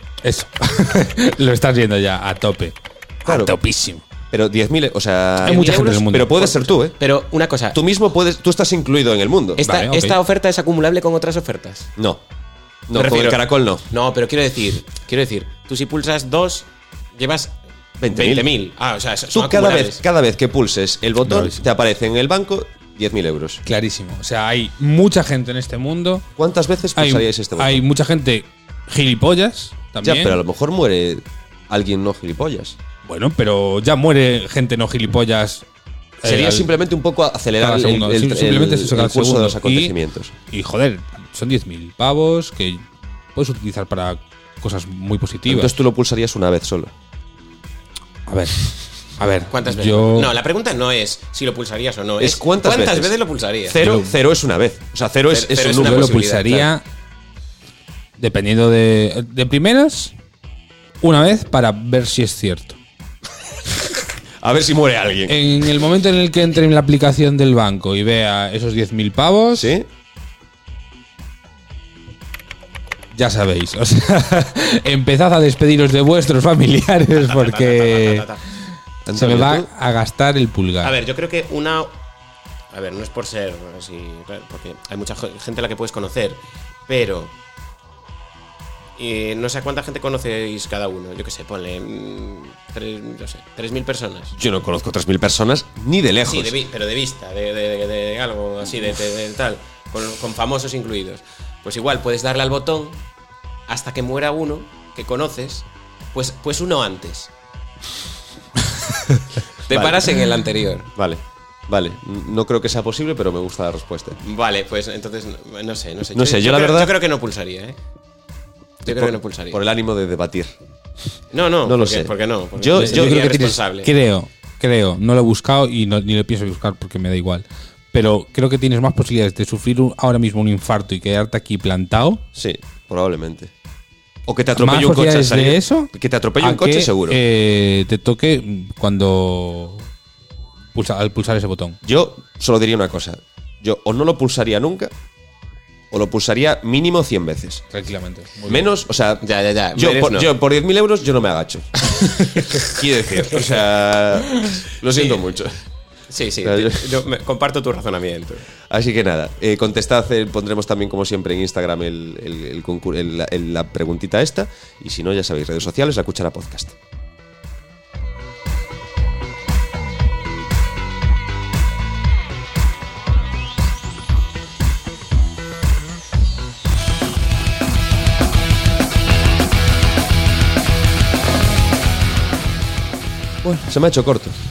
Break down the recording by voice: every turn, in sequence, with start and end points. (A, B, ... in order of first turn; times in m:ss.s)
0:00.2-0:04.0 A
0:03.2-0:03.6 B
0:04.3-0:07.0 B
0:05.4-0:07.8 C
0:05.4-0:06.6 A
0:07.7-0:09.6 B
0:09.6-0:11.9 C
0:09.6-0:10.2 A
0:12.0-0:12.2 B
0:12.9-0:13.8 B
0:12.9-0:17.6 C
0:18.0-0:18.5 B
0:18.1-0:20.0 C
0:19.3-0:23.6 B
0:21.2-0:21.6 A
0:23.6-0:26.3 A
0:26.4-0:27.8 B
0:27.0-0:30.4 A
0:30.0-0:32.8 B
0:33.0-0:35.6 A
0:36.2-0:36.7 A
0:36.2-0:40.3 B
0:37.6-0:39.9 A
0:40.5-0:45.8 A
0:45.4-0:46.9 B
0:48.3-0:48.6 A
0:49.2-0:50.3 A
0:49.5-0:53.9 C
0:52.2-0:56.2 B
0:53.8-0:54.1 A
0:55.3-0:56.7 C
0:55.8-0:56.8 A
0:58.2-1:00.1 A
1:01.0-1:02.8 A
1:04.4-1:05.4 B
1:05.3-1:09.7 A
1:09.5-1:09.9 B
1:13.1-1:18.2 A
1:17.2-1:18.4 C
1:19.0-1:19.7 B
1:19.1-1:20.9 A
1:20.8-1:22.0 C
1:22.7-1:27.3 C
1:29.0-1:34.3 C
1:34.3-1:36.6 B
1:36.3-1:43.0 C
1:43.7-1:47.3 C
1:49.6-1:50.9 C
1:49.7-1:50.2 B
1:50.9-1:54.2 B
1:54.2-1:57.8 C
1:56.1-1:56.9 B
1:58.8-1:59.6 C
1:58.8-2:00.5 B
2:01.3-2:03.9 C
2:01.6-2:03.5 B
2:02.7-2:12.2 A
2:12.3-2:13.5 B
2:14.3-2:17.2 B
2:14.5-2:19.9 A
2:20.7-2:21.8 A
2:21.8-2:24.9 B
2:25.9-2:27.6 B
2:27.7-2:28.7 A
2:28.4-2:35.5 B
2:29.2-2:30.3 C
2:34.9-2:35.2 C
2:36.1-2:38.5 C
2:36.4-2:37.0 B
2:38.7-2:46.8 B
3:03.4-3:04.4 B